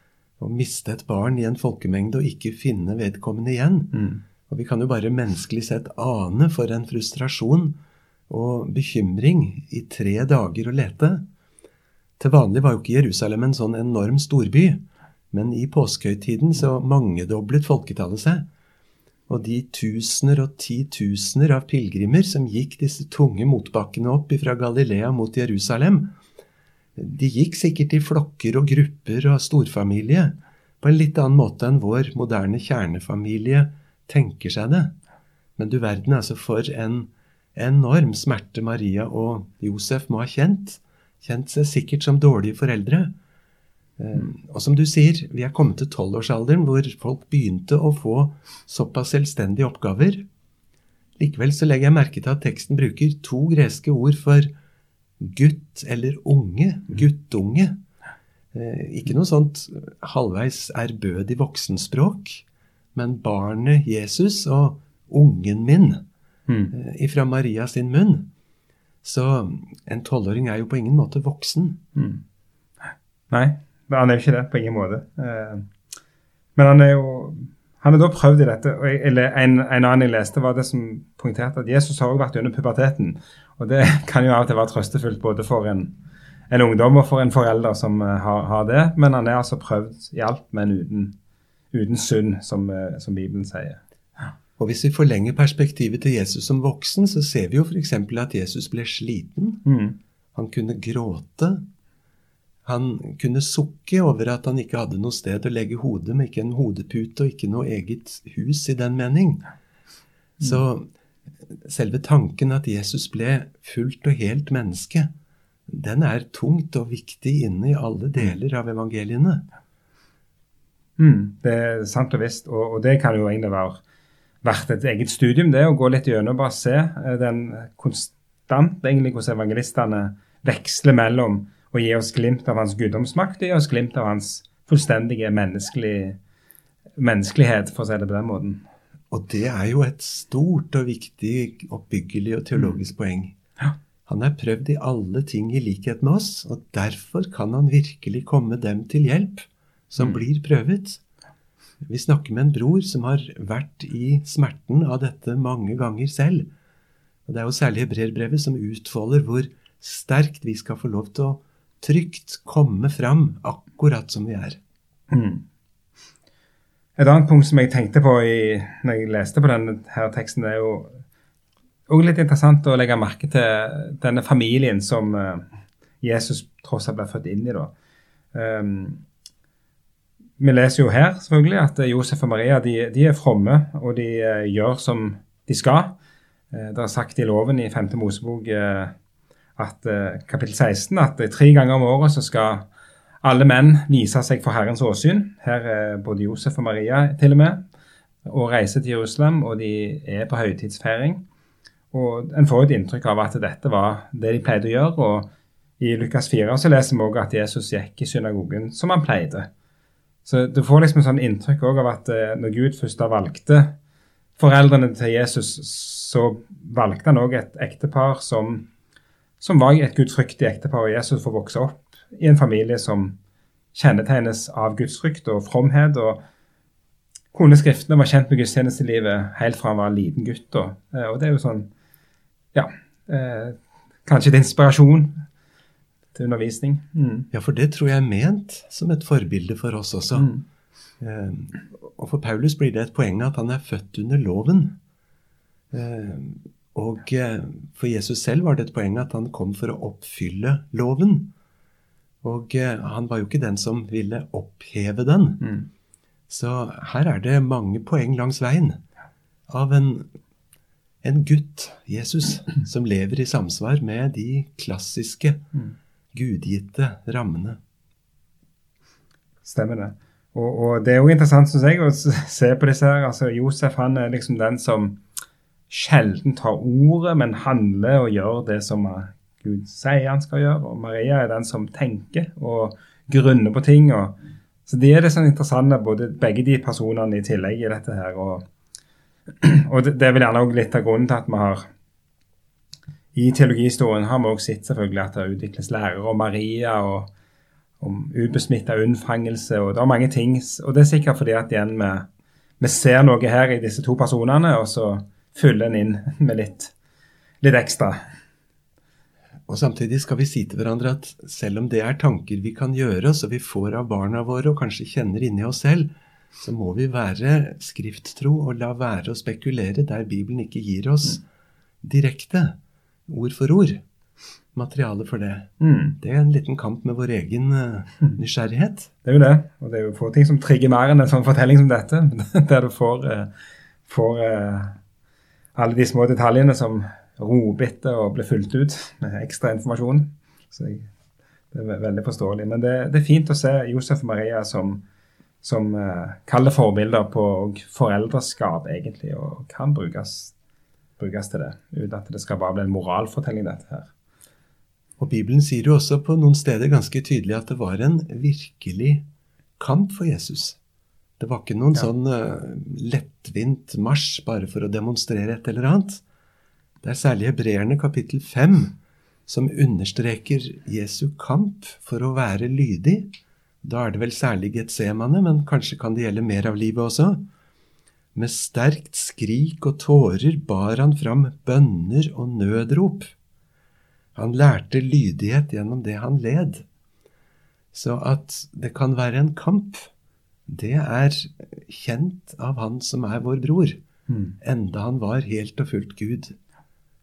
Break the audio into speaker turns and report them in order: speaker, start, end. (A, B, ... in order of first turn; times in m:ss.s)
0:00.4-0:03.9 A
0:03.9-0:04.2 B
0:04.5-0:07.8 A
0:08.3-0:11.2 A
0:12.2-0:18.5 A
0:19.3-0:26.1 A
0:27.0-0:35.0 A
0:35.6-0:43.1 A
0:44.0-0:50.2 A
0:51.2-0:54.5 A
0:55.2-0:57.8 A
0:58.5-1:02.4 A
1:03.0-1:06.0 A
1:06.5-1:06.7 B
1:06.7-1:08.3 A
1:09.0-1:11.8 A
1:12.0-1:12.2 B
1:13.3-1:15.7 B
1:16.6-1:25.9 B
1:26.5-1:31.1 B
1:31.7-1:33.8 B
1:34.6-1:39.6 A
1:39.6-1:40.0 B
1:40.3-1:41.6 A
1:42.6-1:49.5 A
1:50.4-1:50.9 A
1:51.5-1:55.1 A
1:55.7-1:59.4 A
2:01.0-2:03.8 B
2:04.4-2:16.2 B
2:17.0-2:18.6 B
2:19.1-2:23.4 A
2:24.1-2:31.0 A
2:31.8-2:36.5 A
2:37.3-2:44.6 A
2:45.1-2:45.4 B
2:47.0-2:51.0 B
2:51.9-2:55.5 B
2:56.0-2:57.7 B
2:58.3-2:59.0 B
3:00.4-3:06.0 B
3:06.5-3:08.9 B
3:09.6-3:12.7 B
3:13.2-3:17.6 B
3:18.2-3:21.2 B
3:21.9-3:29.5 B
3:30.2-3:33.7 B
3:34.4-3:38.7 B
3:39.4-3:43.2 B
3:43.7-3:46.2 B
3:47.3-3:51.7 B
3:52.5-3:55.2 B
3:56.2-3:57.3 B
3:57.3-4:00.3 A
4:00.2-4:00.4 B
4:01.0-4:04.8 A
4:05.7-4:11.3 A
4:12.2-4:15.5 A
4:16.3-4:18.8 A
4:19.5-4:20.1 A
4:21.0-4:25.4 A
4:26.1-4:27.6 A
4:29.4-4:35.0 B
4:35.7-4:44.2 B
4:44.7-4:48.5 B
4:49.4-4:51.7 B
4:53.1-4:57.1 B
4:57.8-5:02.1 B
5:02.6-5:06.7 B
5:07.4-5:08.0 B
5:09.5-5:21.2 A
5:21.8-5:22.6 A
5:23.1-5:23.8 A
5:24.5-5:28.9 A
5:25.6-5:26.0 B
5:29.0-5:33.3 B
5:33.8-5:34.8 B
5:35.6-5:40.9 B
5:41.5-5:44.8 B
5:45.4-5:50.3 B
5:51.0-5:53.9 B
5:55.0-5:59.0 A
5:59.6-6:00.6 A
6:01.2-6:06.0 A
6:06.8-6:13.1 A
6:13.6-6:17.2 A
6:18.2-6:23.1 A
6:24.2-6:26.7 A
6:27.7-6:29.9 A
6:30.5-6:33.8 A
6:34.1-6:34.4 B
6:34.4-6:36.4 A